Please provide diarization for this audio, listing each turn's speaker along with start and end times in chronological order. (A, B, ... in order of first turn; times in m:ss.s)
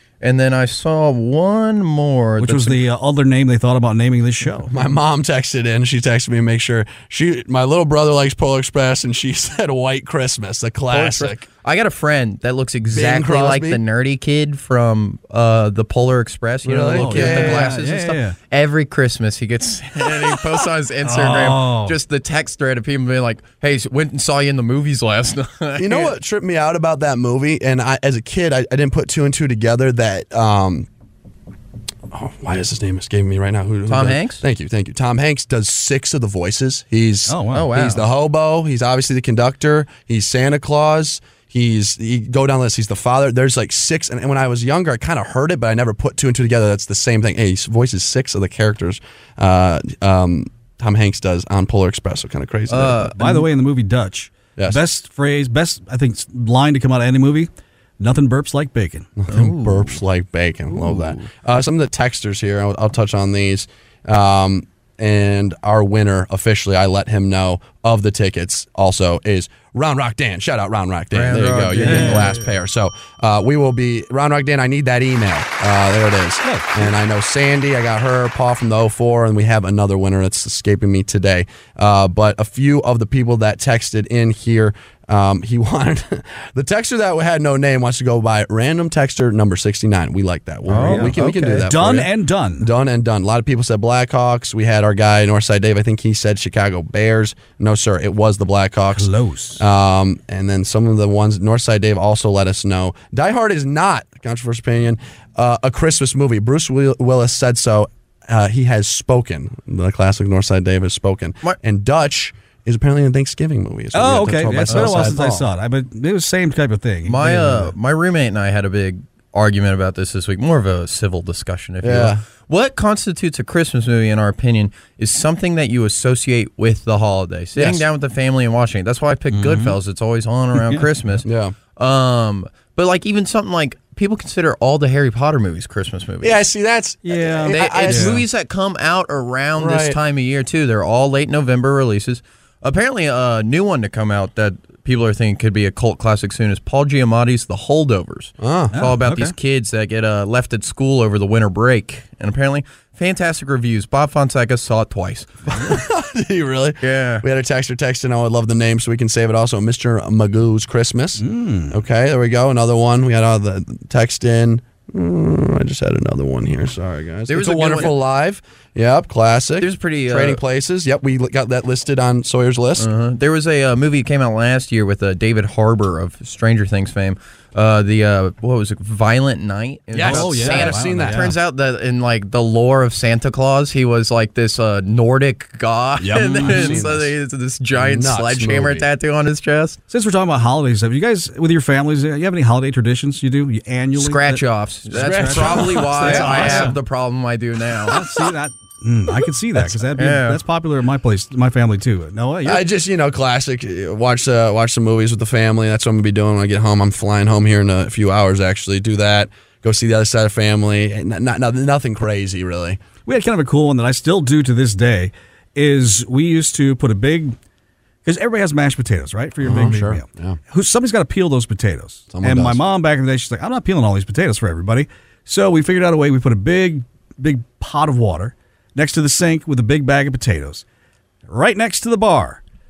0:00.2-0:02.9 A
0:02.4-0:04.7 B
0:04.7-0:11.5 C
0:10.9-0:26.1 A
0:12.9-0:13.8 C
0:16.6-0:17.7 C
0:16.9-0:18.4 B
0:21.0-0:22.0 B
0:25.8-0:30.9 C
0:32.1-0:53.1 C
0:33.9-0:34.4 A
0:37.3-0:37.7 B
0:37.5-0:38.1 A
0:52.7-0:53.5 A
0:53.1-0:59.1 B
0:54.6-0:54.8 C
0:59.2-1:55.5 C
0:59.3-1:00.0 A
1:00.7-1:01.3 A
1:11.1-1:12.4 A
1:11.8-1:12.3 B
1:16.4-1:16.9 B
1:30.7-1:31.7 A
1:30.7-1:32.7 B
1:38.9-1:39.6 B
1:53.9-1:57.8 B
1:54.7-1:55.1 A
1:57.0-2:11.2 A
2:01.8-2:02.2 C
2:07.6-2:07.8 C
2:09.3-2:09.8 B
2:10.6-2:11.2 B
2:11.2-2:11.6 C
2:11.8-2:16.4 A
2:16.2-2:18.2 C
2:17.0-2:18.2 B
2:17.5-2:35.5 A
2:19.6-2:20.0 C
2:28.4-2:28.8 C
2:28.7-2:29.3 B
2:35.5-2:52.9 C
2:36.8-2:37.2 A
2:41.2-2:41.8 B
2:47.3-2:48.0 A
2:49.6-2:50.4 A
2:52.8-3:09.8 A
2:59.9-3:01.4 C
3:00.0-3:01.4 B
3:06.0-3:07.1 C
3:06.3-3:06.9 B
3:07.8-3:08.9 C
3:09.9-3:16.8 B
3:13.9-3:18.0 A
3:15.0-3:16.8 C
3:17.9-3:22.6 B
3:19.6-3:20.4 A
3:22.4-3:32.8 C
3:33.0-3:37.4 B
3:38.0-3:50.6 B
3:39.4-3:40.4 C
3:42.1-3:42.6 C
3:51.3-3:52.4 B